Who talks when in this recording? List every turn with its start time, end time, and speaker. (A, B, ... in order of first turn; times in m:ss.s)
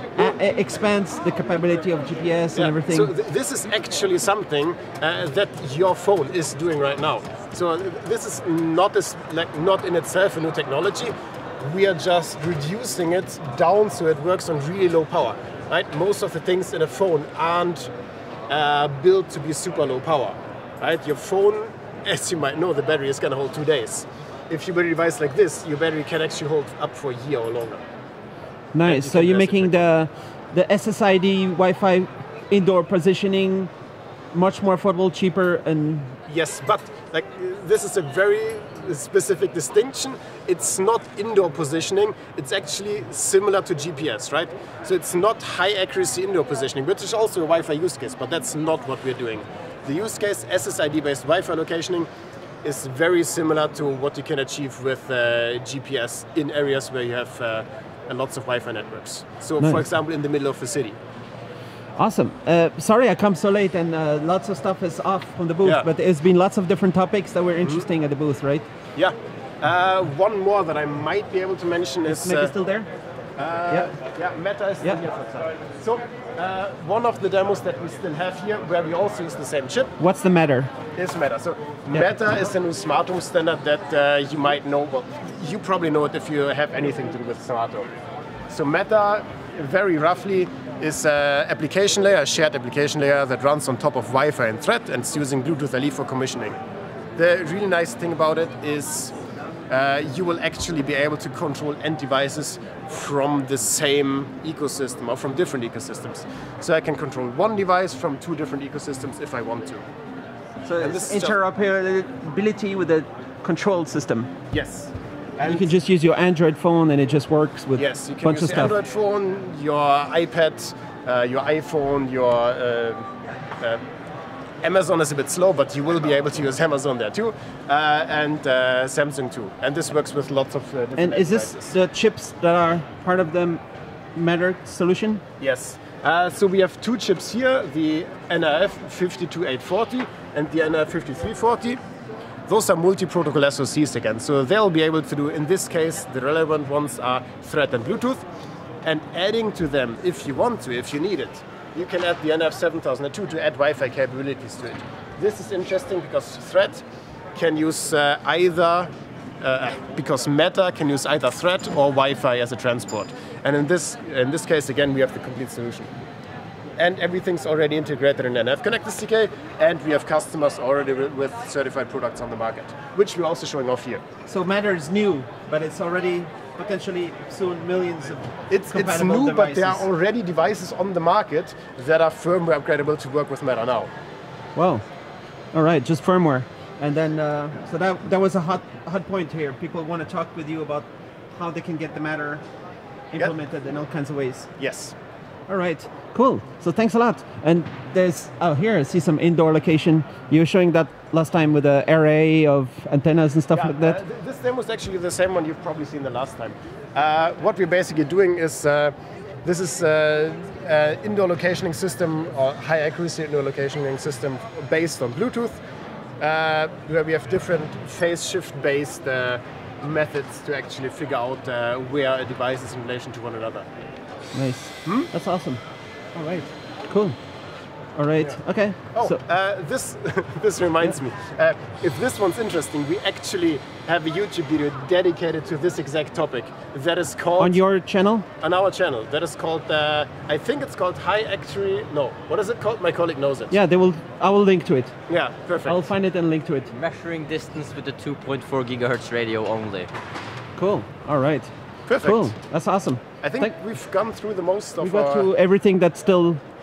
0:00.2-0:03.1 A
0:02.6-0:17.9 B
0:18.5-0:27.8 B
0:28.7-0:33.7 A
0:28.8-0:29.8 B
0:34.3-0:36.2 A
0:36.3-0:52.1 B
0:52.6-1:01.0 B
1:02.0-1:08.6 A
1:09.0-1:12.5 B
1:12.1-1:12.9 A
1:13.4-1:19.9 B
1:20.0-1:20.7 A
1:21.0-1:27.9 B
1:28.5-1:36.6 B
1:37.2-1:39.1 B
1:39.7-1:49.8 B
1:50.6-1:54.3 A
1:50.8-1:51.4 B
1:54.5-1:55.7 B
1:55.4-1:58.8 A
1:57.8-2:03.1 B
2:04.6-2:11.7 B
2:11.0-2:13.6 A
2:14.2-2:15.2 A
2:15.4-2:21.8 B
2:22.5-2:28.2 B
2:28.8-2:36.8 B
2:37.4-2:45.9 B
2:46.8-2:54.0 B
2:54.3-2:59.8 A
2:58.5-3:03.9 B
3:04.6-3:04.8 A
3:05.5-3:12.4 A
3:13.1-3:14.5 A
3:14.6-3:15.0 B
3:15.5-3:24.0 A
3:23.5-3:35.6 B
3:36.2-3:43.7 B
3:44.3-3:45.6 A
3:44.8-3:45.1 B
3:46.2-3:46.4 B
3:46.9-3:47.2 A
3:48.0-3:49.2 A
3:48.9-3:57.6 B
3:57.4-3:58.3 A
3:58.4-4:03.6 B
4:03.5-4:05.0 A
4:05.1-4:05.8 B
4:05.6-4:06.7 A
4:06.7-4:09.9 C
4:10.6-4:13.5 A
4:11.9-4:12.3 B
4:13.2-4:15.3 B
4:14.8-4:16.4 A